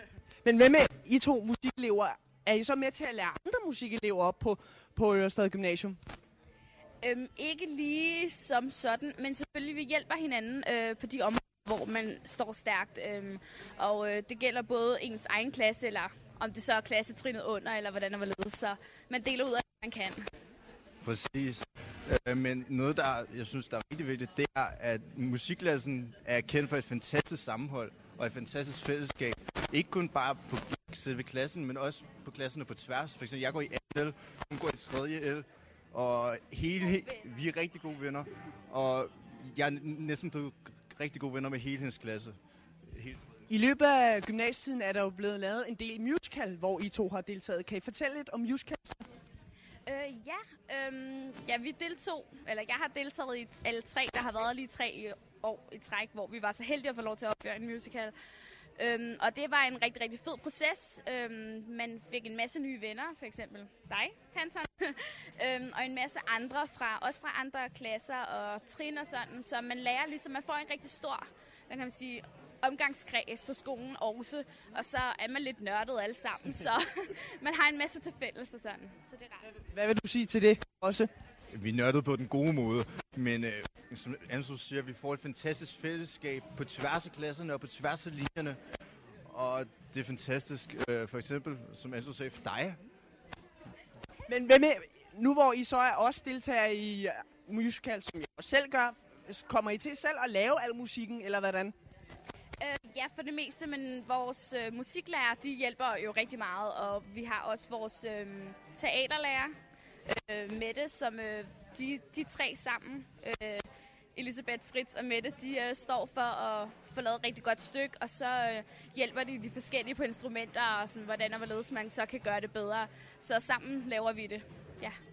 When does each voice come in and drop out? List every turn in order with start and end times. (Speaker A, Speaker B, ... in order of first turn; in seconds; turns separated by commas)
Speaker A: 0.4-6.0, Speaker B: 7.0-20.2, Speaker C: 21.0-43.4, Speaker B: 36.8-37.2, Speaker A: 43.5-49.1, Speaker B: 49.9-58.1, Speaker B: 58.8-79.5, Speaker A: 79.5-81.1, Speaker C: 81.5-88.6, Speaker C: 89.3-92.8, Speaker A: 94.3-101.8, Speaker B: 102.6-125.0